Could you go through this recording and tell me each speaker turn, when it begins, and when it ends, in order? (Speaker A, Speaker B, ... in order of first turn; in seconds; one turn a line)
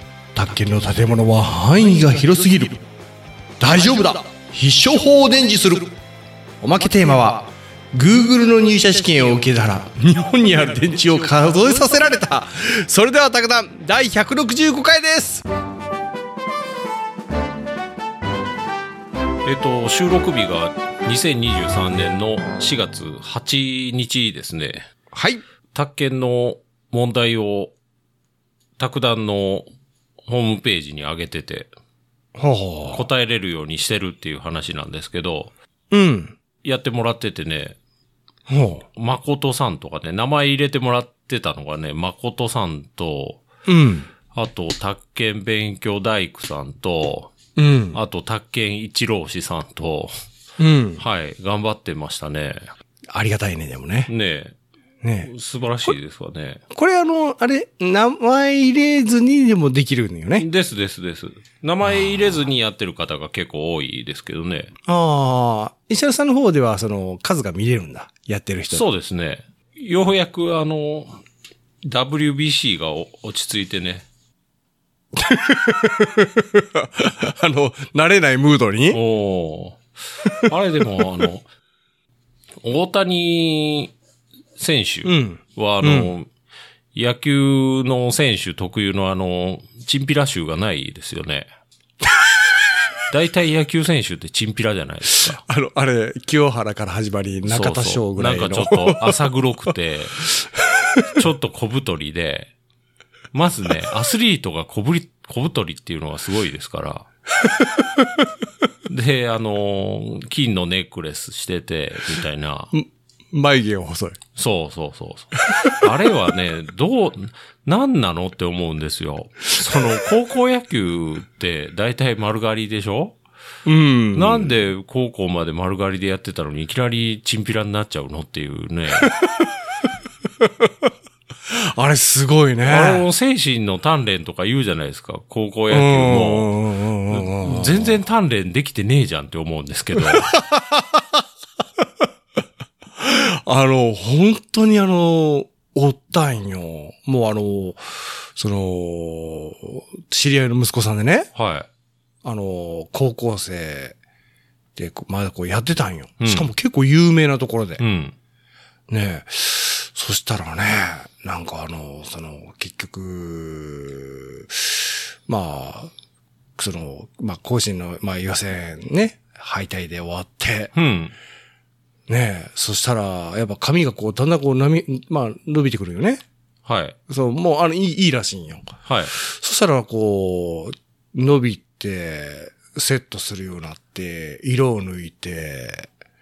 Speaker A: 0.3-2.8
Speaker A: 3.6-5.9
Speaker A: 6.6-15.4
Speaker B: 19.4-24.8
Speaker A: 25.1-25.4
Speaker B: 25.7-27.7
Speaker B: 28.8-29.6
Speaker B: 30.3-31.7
Speaker A: 32.4-33.0
Speaker B: 32.9-35.5
Speaker A: 35.9-36.4
Speaker B: 36.6-37.8
Speaker A: 38.5-38.8
Speaker B: 38.9-43.4
Speaker A: 43.7-44.1
Speaker B: 44.3-47.3
Speaker A: 47.5-48.0
Speaker B: 47.9-50.1
Speaker A: 50.6-51.0
Speaker B: 51.0-52.7
Speaker A: 53.1-54.1
Speaker B: 54.1-54.5
Speaker A: 55.0-55.3
Speaker B: 55.2-56.6
Speaker A: 56.7-60.5
Speaker B: 60.4-64.7
Speaker A: 64.8-68.8
Speaker B: 68.7-71.2
Speaker B: 71.8-74.0
Speaker A: 75.1-79.0
Speaker B: 78.9-79.8
Speaker A: 80.2-81.2
Speaker B: 80.4-81.4
Speaker B: 82.6-83.9
Speaker B: 84.6-86.3
Speaker A: 85.0-86.1
Speaker B: 86.9-91.5
Speaker A: 92.0-92.7
Speaker B: 93.1-95.4
Speaker A: 95.3-99.3
Speaker B: 97.5-100.2
Speaker A: 100.2-101.0
Speaker B: 101.1-102.5
Speaker B: 103.3-107.1
Speaker A: 107.4-108.1
Speaker B: 108.9-112.7
Speaker A: 112.7-114.2
Speaker B: 114.3-123.2
Speaker A: 115.5-115.9
Speaker A: 119.6-120.0
Speaker A: 123.6-124.5
Speaker B: 124.1-129.1
Speaker A: 129.0-129.5
Speaker A: 130.4-130.9
Speaker A: 131.5-133.1
Speaker B: 132.6-136.5
Speaker A: 135.7-138.0
Speaker B: 137.1-140.3
Speaker A: 139.9-141.2
Speaker A: 143.0-151.3
Speaker B: 151.3-151.7
Speaker A: 152.2-153.9
Speaker A: 154.8-157.8
Speaker B: 156.2-156.5
Speaker B: 157.8-158.1
Speaker A: 158.9-165.9
Speaker A: 166.6-170.7
Speaker B: 170.7-171.1
Speaker A: 172.1-176.2
Speaker B: 176.7-176.9
Speaker A: 177.1-185.9
Speaker B: 178.8-179.1